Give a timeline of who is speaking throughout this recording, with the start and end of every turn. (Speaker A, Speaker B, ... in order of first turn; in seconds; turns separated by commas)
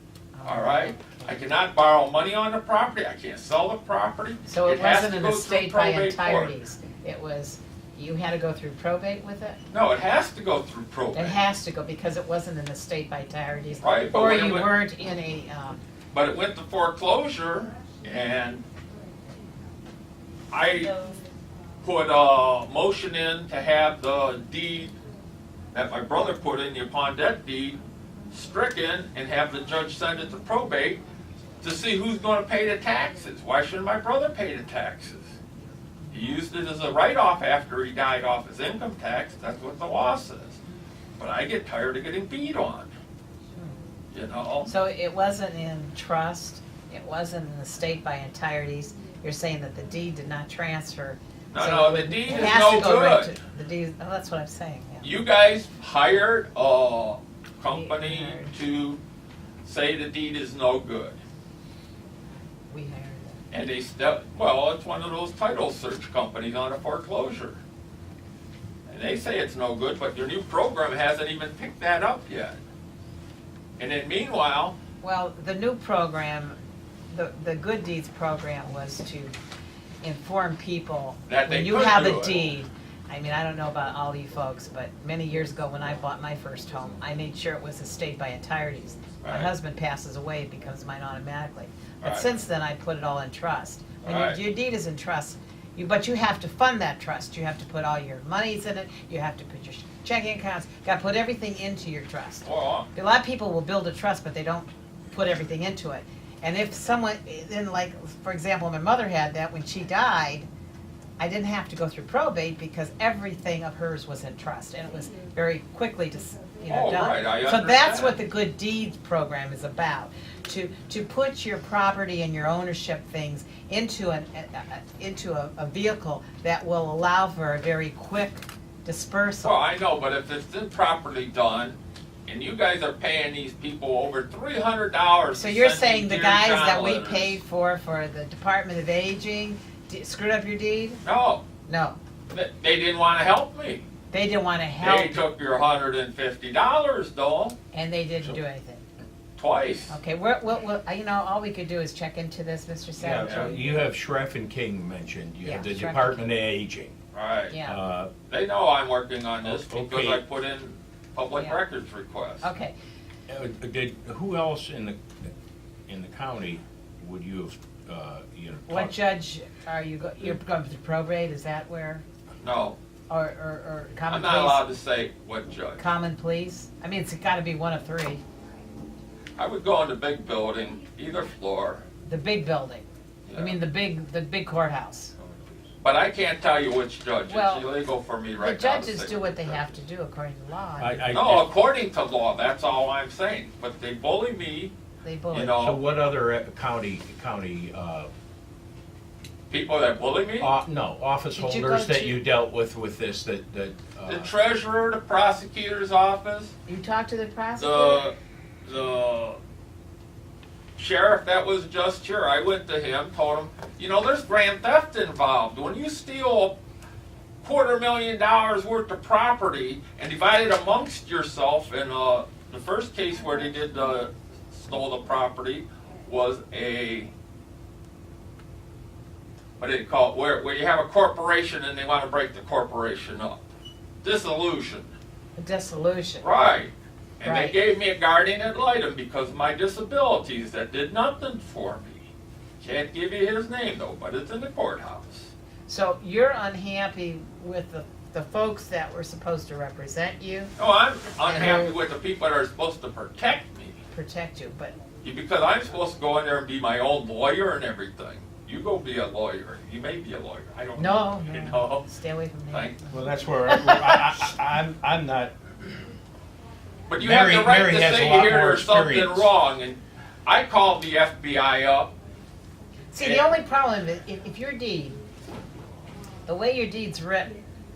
Speaker A: 0.3-1.4, Speaker B: 0.4-6.5, Speaker A: 4.4-9.6, Speaker B: 9.7-11.4, Speaker A: 11.1-15.8, Speaker B: 13.8-14.7, Speaker B: 16.1-18.6, Speaker B: 20.5-20.9, Speaker A: 20.8-21.2, Speaker B: 21.8-24.9, Speaker B: 25.7-27.8, Speaker B: 28.3-31.0, Speaker B: 31.6-35.3, Speaker B: 36.1-40.6, Speaker B: 41.2-42.9, Speaker B: 44.1-44.7, Speaker A: 44.6-55.1, Speaker B: 51.5-53.4, Speaker B: 55.0-59.0, Speaker A: 57.7-58.5, Speaker B: 59.6-61.2, Speaker A: 62.7-63.4, Speaker B: 63.5-67.6, Speaker B: 68.9-72.6, Speaker B: 73.8-74.8, Speaker A: 75.0-76.6, Speaker A: 77.1-79.3, Speaker A: 80.0-110.5, Speaker B: 81.3-82.5, Speaker B: 89.2-89.5, Speaker B: 92.0-92.2, Speaker B: 94.0-94.4, Speaker B: 102.4-102.9, Speaker A: 111.2-129.6, Speaker B: 116.7-118.2, Speaker B: 129.4-137.4, Speaker A: 135.3-141.0, Speaker B: 141.0-141.4, Speaker A: 141.7-142.0, Speaker B: 142.3-143.8, Speaker A: 144.1-145.2, Speaker B: 144.8-147.6, Speaker A: 147.7-148.8, Speaker B: 149.3-149.9, Speaker A: 149.9-153.6, Speaker C: 152.9-156.9, Speaker B: 153.2-153.5, Speaker A: 155.4-156.2, Speaker B: 157.1-157.6, Speaker A: 157.5-157.8, Speaker C: 157.6-158.1, Speaker B: 158.3-162.5, Speaker C: 159.4-160.2, Speaker A: 161.3-161.6, Speaker A: 162.4-162.7, Speaker C: 163.3-165.0, Speaker C: 165.9-168.9, Speaker A: 168.7-172.0, Speaker B: 172.4-172.8, Speaker A: 173.1-174.6, Speaker B: 174.1-175.8, Speaker A: 175.8-178.2, Speaker B: 179.3-181.8, Speaker A: 182.1-185.1, Speaker B: 183.2-183.6, Speaker B: 185.8-189.7, Speaker A: 187.3-187.7, Speaker A: 188.3-191.1, Speaker C: 190.8-191.5, Speaker B: 191.1-194.7, Speaker A: 195.0-195.6, Speaker B: 195.3-195.8, Speaker C: 195.6-198.1, Speaker B: 199.5-200.5, Speaker C: 200.4-204.3, Speaker A: 201.3-202.2, Speaker B: 204.1-206.5, Speaker A: 206.7-208.1, Speaker B: 207.6-209.4, Speaker B: 210.8-216.6, Speaker B: 217.4-227.1, Speaker B: 229.6-233.4, Speaker B: 234.0-234.9, Speaker A: 235.4-236.2, Speaker B: 236.2-242.1, Speaker A: 237.2-237.6, Speaker B: 242.6-245.3, Speaker A: 245.7-250.5, Speaker B: 250.6-253.8, Speaker A: 251.2-251.7, Speaker A: 253.9-254.7, Speaker B: 255.0-261.9, Speaker A: 260.8-264.2, Speaker B: 262.5-262.8, Speaker C: 262.9-265.3, Speaker B: 266.9-271.9, Speaker C: 267.0-269.3, Speaker A: 272.9-275.0, Speaker B: 273.0-273.3, Speaker A: 276.2-277.4